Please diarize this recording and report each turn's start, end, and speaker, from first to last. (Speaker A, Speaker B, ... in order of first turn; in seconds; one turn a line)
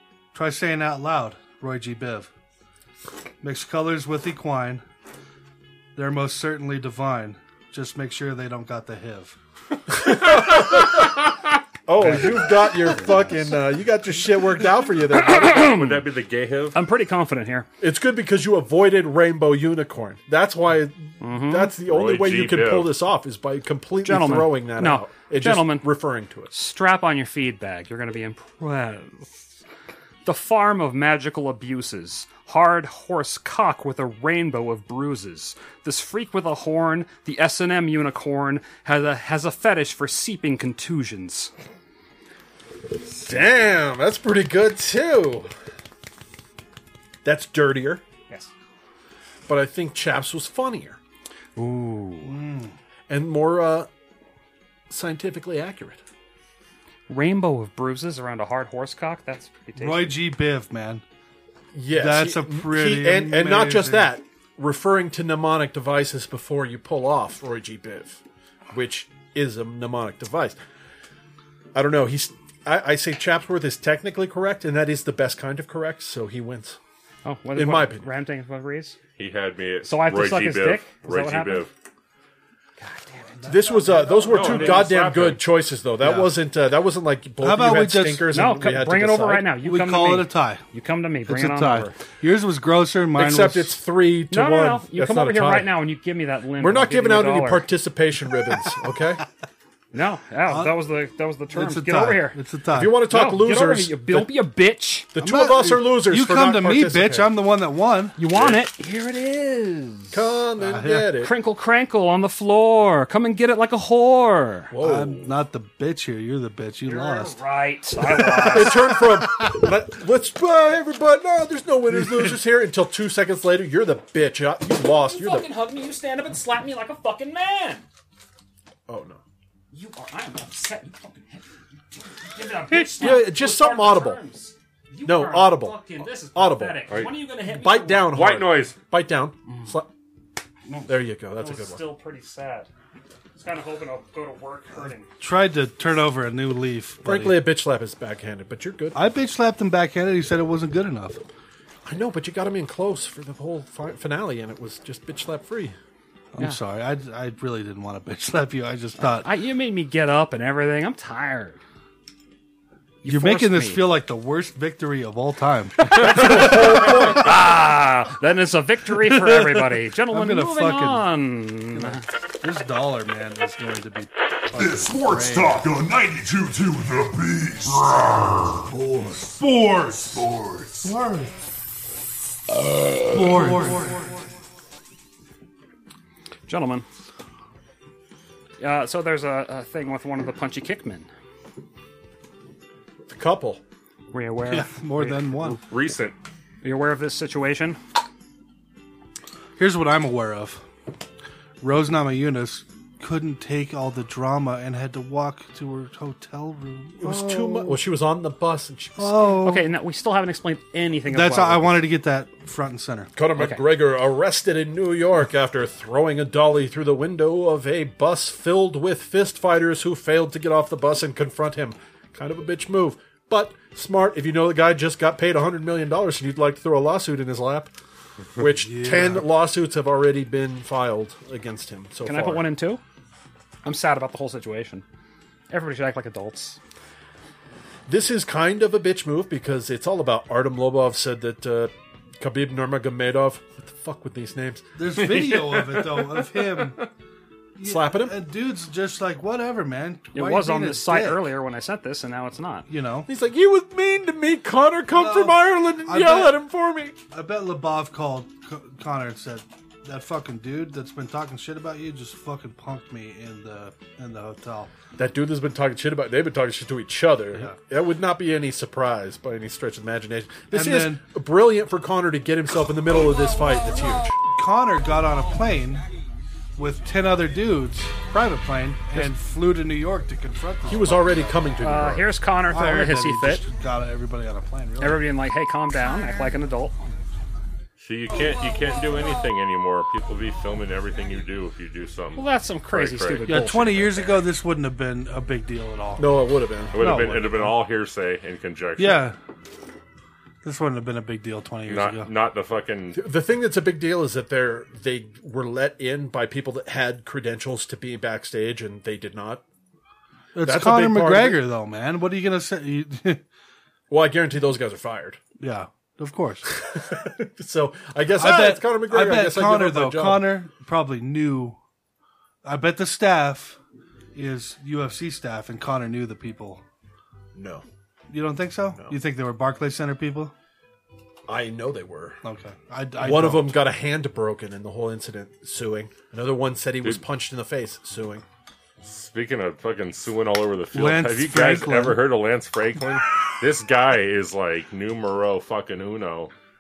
Speaker A: 0.3-2.3
Speaker A: 3.4-4.8
Speaker A: 6.0-9.4
Speaker B: 9.9-11.2
Speaker B: 11.9-15.7
Speaker C: 15.1-16.0
Speaker D: 15.4-16.8
Speaker C: 16.7-17.7
Speaker B: 17.8-26.5
Speaker C: 21.2-21.8
Speaker D: 21.9-22.9
Speaker C: 24.0-25.9
Speaker C: 26.5-29.4
Speaker C: 30.2-41.5
Speaker B: 43.1-45.5
Speaker B: 47.2-48.0
Speaker B: 49.5-51.0
Speaker C: 51.6-52.3
Speaker A: 52.2-52.7
Speaker B: 53.1-53.9
Speaker B: 54.9-56.0
Speaker C: 57.1-60.2
Speaker A: 59.8-61.0
Speaker B: 61.7-70.6
Speaker A: 61.9-64.1
Speaker B: 71.7-76.8
Speaker C: 77.2-79.0
Speaker B: 77.5-78.0
Speaker D: 79.2-81.7
Speaker C: 79.8-81.7
Speaker C: 82.8-83.5
Speaker A: 83.4-84.9
Speaker B: 83.5-89.5
Speaker D: 84.3-85.5
Speaker A: 86.0-86.3
Speaker A: 87.4-88.3
Speaker C: 88.3-92.0
Speaker A: 89.6-90.6
Speaker A: 91.3-93.8
Speaker B: 93.2-95.7
Speaker C: 94.3-97.7
Speaker B: 96.6-99.2
Speaker C: 99.9-102.4
Speaker A: 100.5-100.8
Speaker A: 101.5-103.0
Speaker B: 102.7-104.4
Speaker C: 103.0-105.1
Speaker B: 105.1-107.4
Speaker A: 105.2-108.2
Speaker C: 108.2-110.2
Speaker B: 110.1-111.3
Speaker A: 110.6-111.2
Speaker C: 111.2-114.7
Speaker B: 114.7-115.4
Speaker A: 114.8-117.3
Speaker C: 116.8-119.0
Speaker A: 118.3-118.8
Speaker B: 118.4-125.5
Speaker C: 125.1-127.8
Speaker B: 128.9-129.2
Speaker C: 129.7-131.4
Speaker C: 132.2-138.2
Speaker B: 132.7-134.2
Speaker B: 135.1-136.8
Speaker B: 137.4-139.9
Speaker D: 138.1-138.8
Speaker C: 140.7-142.7
Speaker B: 140.9-141.9
Speaker C: 143.3-145.1
Speaker A: 144.8-147.5
Speaker B: 147.1-149.0
Speaker A: 148.9-151.2
Speaker B: 151.8-155.8
Speaker A: 156.3-159.3
Speaker C: 159.0-161.6
Speaker C: 163.0-163.9
Speaker A: 163.1-167.2
Speaker B: 165.9-167.3
Speaker C: 167.1-172.0
Speaker A: 169.1-171.1
Speaker A: 171.7-175.6
Speaker E: 174.5-181.0
Speaker A: 180.8-181.3
Speaker E: 182.6-183.7
Speaker A: 183.1-184.2
Speaker C: 186.5-186.9
Speaker C: 188.6-191.1
Speaker B: 193.1-193.6
Speaker C: 194.1-195.6
Speaker A: 194.5-195.6
Speaker D: 195.6-196.2
Speaker C: 196.6-197.8
Speaker A: 199.6-200.6
Speaker A: 201.6-207.8
Speaker B: 207.0-209.3
Speaker A: 209.0-209.7
Speaker C: 209.4-211.9
Speaker A: 211.1-213.1
Speaker B: 213.2-227.7
Speaker C: 213.4-213.6
Speaker B: 228.4-232.5
Speaker A: 228.6-229.3
Speaker C: 232.1-232.8
Speaker C: 233.6-234.8
Speaker C: 235.5-236.6
Speaker B: 237.9-244.7
Speaker A: 244.8-246.8
Speaker D: 245.0-246.7
Speaker A: 247.6-251.3
Speaker B: 247.6-248.2
Speaker C: 250.2-252.7
Speaker A: 252.7-253.1
Speaker B: 253.1-257.0
Speaker A: 254.9-256.4
Speaker A: 257.1-264.7
Speaker B: 265.0-274.2
Speaker A: 270.5-271.0
Speaker A: 274.3-275.9
Speaker A: 276.6-281.4
Speaker B: 280.7-282.2
Speaker C: 281.6-283.4
Speaker A: 282.5-285.1
Speaker C: 284.8-286.8
Speaker D: 287.8-293.5
Speaker C: 292.1-293.9
Speaker A: 293.3-297.5
Speaker B: 296.0-297.3
Speaker D: 296.7-299.1
Speaker A: 298.8-299.2
Speaker A: 300.4-302.1
Speaker D: 301.7-303.0
Speaker B: 302.9-309.4
Speaker A: 310.4-313.2
Speaker B: 310.4-311.5
Speaker B: 313.9-315.2
Speaker A: 315.4-316.5
Speaker B: 316.5-320.4
Speaker A: 318.2-321.6
Speaker A: 322.4-323.6
Speaker A: 324.1-326.6
Speaker B: 327.4-327.6
Speaker A: 328.1-330.3
Speaker B: 331.3-332.2
Speaker A: 332.2-333.6
Speaker B: 333.0-338.2
Speaker D: 338.8-346.3
Speaker A: 340.7-342.0